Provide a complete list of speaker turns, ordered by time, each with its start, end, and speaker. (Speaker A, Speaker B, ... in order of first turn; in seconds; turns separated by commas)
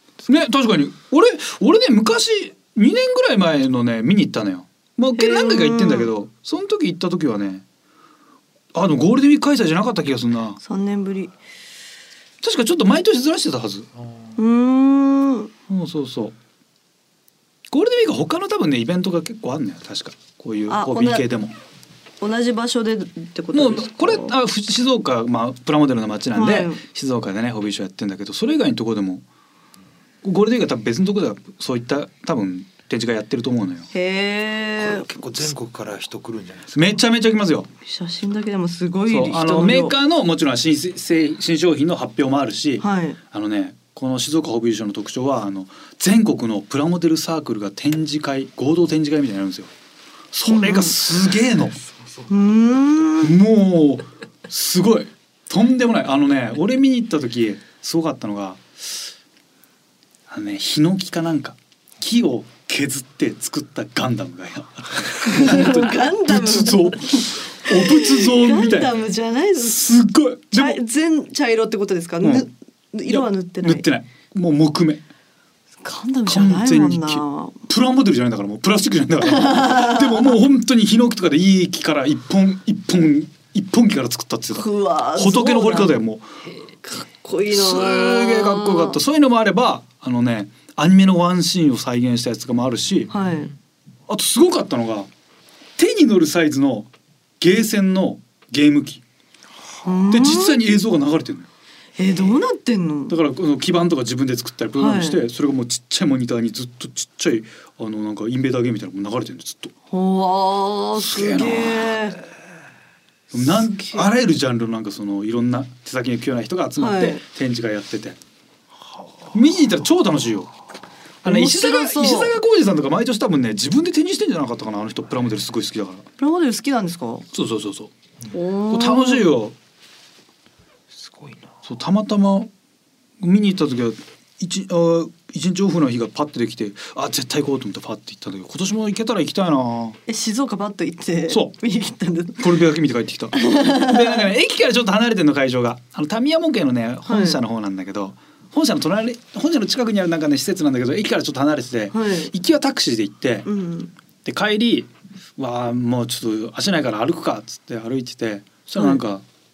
Speaker A: 0.2-7.6, Speaker B: 5.2-6.1, Speaker A: 8.7-10.6, Speaker B: 10.6-11.3, Speaker A: 12.4-13.9, Speaker B: 14.4-15.5, Speaker A: 15.7-16.3, Speaker A: 17.7-21.5, Speaker B: 20.7-21.2, Speaker B: 22.2-24.4, Speaker A: 23.5-29.2, Speaker B: 26.3-26.8, Speaker A: 30.2-33.9, Speaker B: 33.9-35.0, Speaker C: 34.8-37.0, Speaker A: 36.7-37.7, Speaker B: 37.8-39.9, Speaker A: 39.1-49.7, Speaker B: 42.8-43.2, Speaker A: 50.3-51.8, Speaker B: 50.5-51.0, Speaker B: 52.3-53.3, Speaker A: 53.2-59.1, Speaker A: 60.3-68.9, Speaker B: 65.2-67.1, Speaker B: 67.6-69.9, Speaker A: 69.5-70.8, Speaker B: 70.5-73.8, Speaker A: 72.2-72.5, Speaker A: 73.0-75.0, Speaker B: 75.8-77.6, Speaker A: 76.3-86.3, Speaker B: 79.2-80.4, Speaker B: 84.5-86.0, Speaker B: 86.8-89.0, Speaker A: 87.5-93.1, Speaker B: 93.1-93.5, Speaker A: 94.1-95.1, Speaker A: 95.8-96.9, Speaker A: 97.4-99.0, Speaker B: 99.8-100.6, Speaker A: 100.1-101.5, Speaker B: 102.0-103.2, Speaker A: 103.1-109.7, Speaker B: 104.8-105.2, Speaker B: 109.9-112.2, Speaker A: 111.0-112.0, Speaker A: 113.3-118.2, Speaker B: 113.7-114.1, Speaker B: 116.8-117.2, Speaker A: 119.3-120.5, Speaker B: 121.2-122.4, Speaker A: 121.2-126.0, Speaker B: 126.2-127.2, Speaker A: 127.3-127.9, Speaker B: 128.3-129.3, Speaker A: 128.7-129.5, Speaker C: 130.9-131.5, Speaker A: 131.6-132.5, Speaker A: 133.2-140.0, Speaker B: 140.1-142.5, Speaker A: 142.4-153.5, Speaker B: 143.3-144.3, Speaker B: 147.1-147.4, Speaker B: 151.9-152.3, Speaker B: 153.4-153.9, Speaker A: 154.2-159.2